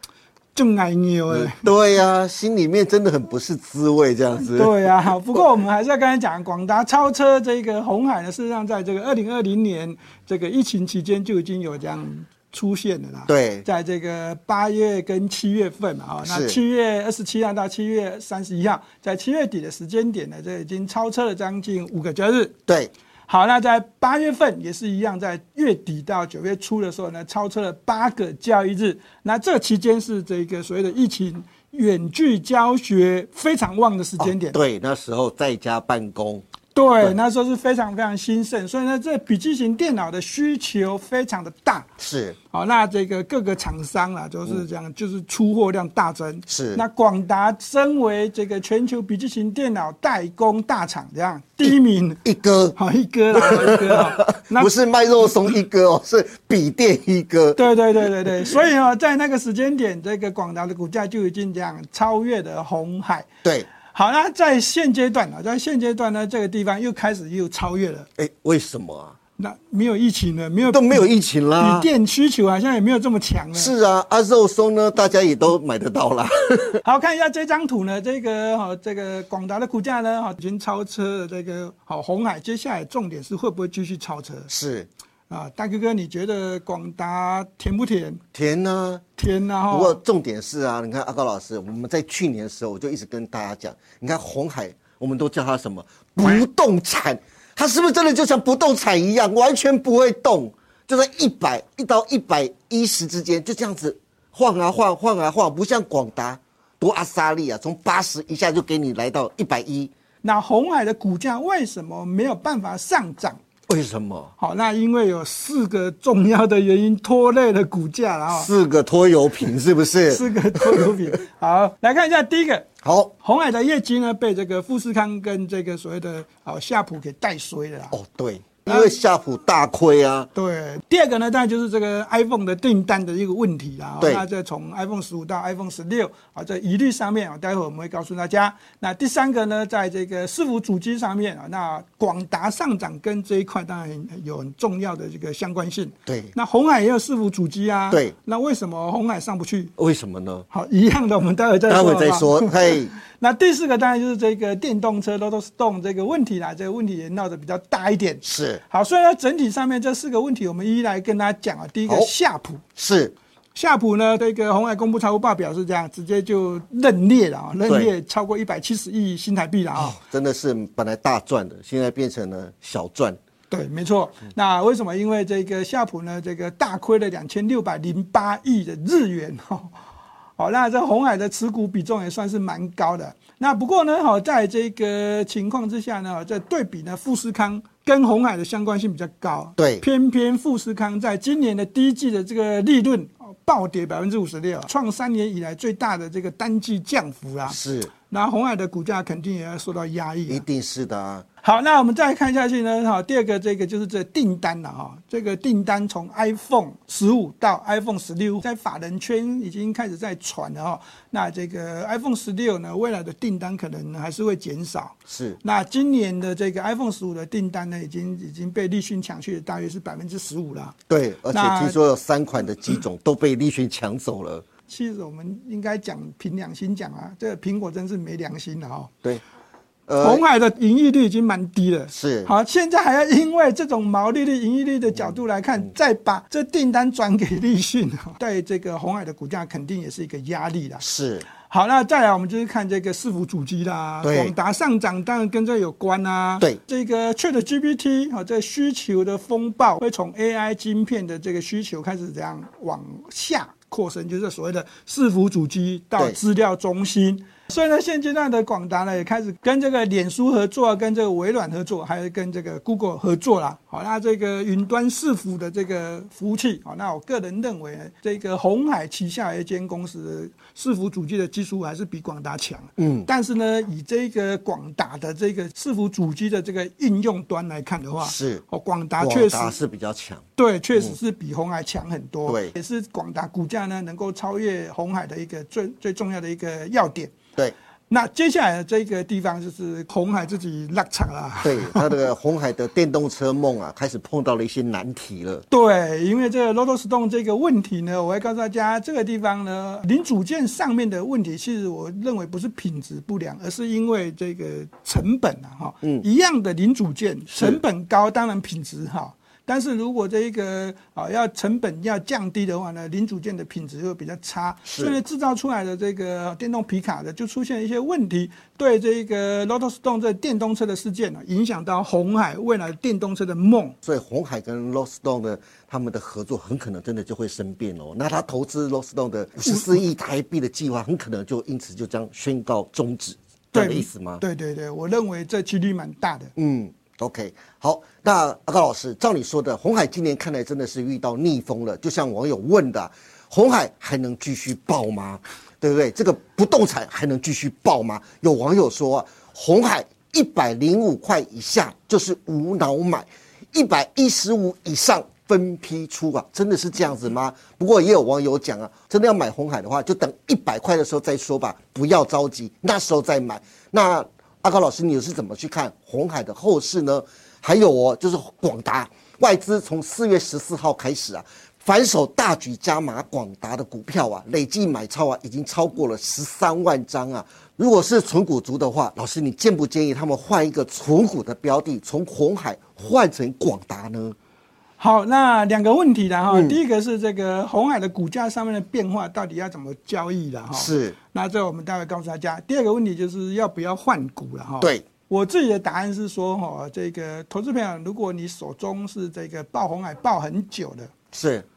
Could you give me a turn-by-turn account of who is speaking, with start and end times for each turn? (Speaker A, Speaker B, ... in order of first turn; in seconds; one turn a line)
Speaker A: 0.5-1.7
Speaker B: 1.3-5.4
Speaker A: 4.4-22.5
Speaker B: 13.3-13.7
Speaker B: 16.2-16.6
Speaker A: 23.3-34.6
Speaker B: 34.2-36.4
Speaker A: 36.7-41.9
Speaker B: 42.0-42.4
Speaker A: 42.5-52.2
Speaker B: 46.5-46.8
Speaker B: 52.2-52.8
Speaker A: 52.8-54.7
Speaker B: 53.3-57.6
Speaker A: 57.5-63.3
Speaker A: 63.9-68.1
Speaker B: 68.2-69.2
Speaker A: 69.4-71.0
Speaker B: 70.6-71.9
Speaker A: 71.6-73.7
Speaker B: 73.5-76.8
Speaker A: 76.8-84.5
Speaker B: 84.5-84.9
Speaker A: 85.3-88.2
Speaker B: 88.3-89.0
Speaker A: 89.2-90.0
Speaker B: 89.7-109.9
Speaker A: 110.2-113.4
Speaker B: 113.7-114.3
Speaker A: 114.4-118.5
Speaker B: 118.3-121.0
Speaker A: 120.1-122.7
Speaker B: 122.8-123.1
Speaker A: 123.2-127.9
Speaker B: 127.9-130.3
Speaker A: 128.7-129.0
Speaker A: 130.3-149.7
Speaker B: 134.0-134.2
Speaker B: 146.1-146.3
Speaker B: 149.8-150.4
Speaker A: 150.5-162.6
Speaker B: 151.7-152.9
Speaker B: 158.2-158.6
Speaker B: 162.8-163.1
Speaker A: 163.5-170.0
Speaker B: 167.7-167.9
Speaker B: 169.7-173.2
Speaker A: 173.5-179.7
Speaker A: 180.4-200.4
Speaker B: 189.6-189.8
Speaker B: 197.4-197.9
Speaker B: 200.3-201.2
Speaker A: 201.4-220.8
Speaker B: 215.1-215.4
Speaker B: 220.9-224.4
Speaker A: 221.3-221.8
Speaker A: 224.7-228.9
Speaker B: 229.9-230.2
Speaker A: 230.0-279.5
Speaker B: 231.9-232.3
Speaker B: 240.8-241.3
Speaker B: 244.0-244.3
Speaker B: 272.8-273.1
Speaker B: 278.0-278.4
Speaker B: 279.0-281.0
Speaker A: 280.4-287.1
Speaker B: 282.3-282.5
Speaker A: 287.9-292.0
Speaker B: 291.4-295.4
Speaker A: 295.5-323.8
Speaker B: 307.3-307.6
Speaker B: 314.6-315.0
Speaker B: 323.8-334.2
Speaker A: 329.4-329.8
Speaker A: 333.5-336.3
Speaker B: 336.4-384.1
Speaker A: 384.8-400.9
Speaker B: 386.3-386.6
Speaker B: 390.5-390.9
Speaker B: 401.1-401.4